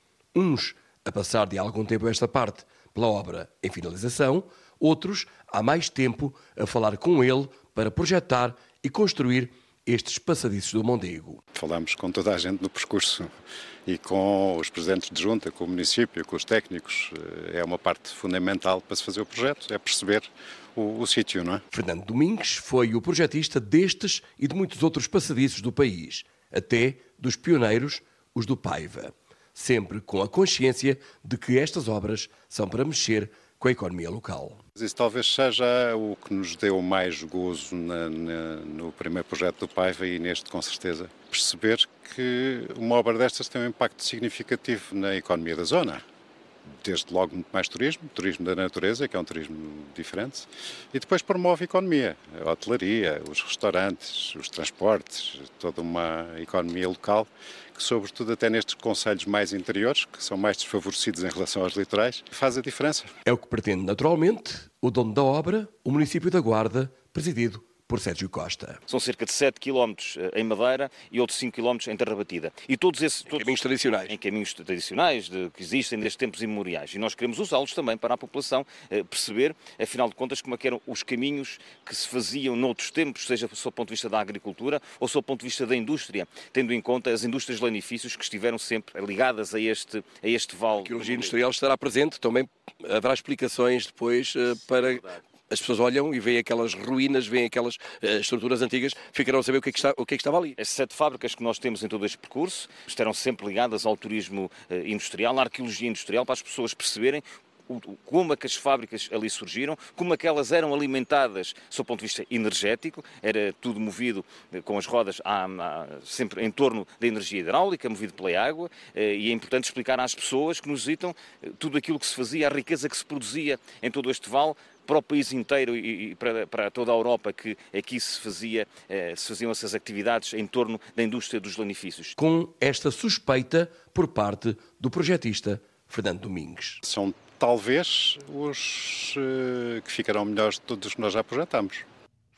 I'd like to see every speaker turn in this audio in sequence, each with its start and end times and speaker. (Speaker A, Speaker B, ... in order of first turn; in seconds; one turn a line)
Speaker A: 0.3-11.4
Speaker B: 11.5-21.6
Speaker A: 21.7-34.6
Speaker B: 34.8-46.0
Speaker B: 46.8-63.2
Speaker A: 63.3-68.8
Speaker C: 68.9-73.6
Speaker A: 73.3-74.2
Speaker C: 74.1-91.3
Speaker A: 90.8-100.5
Speaker C: 100.6-132.1
Speaker A: 132.2-136.8
Speaker B: 136.8-141.8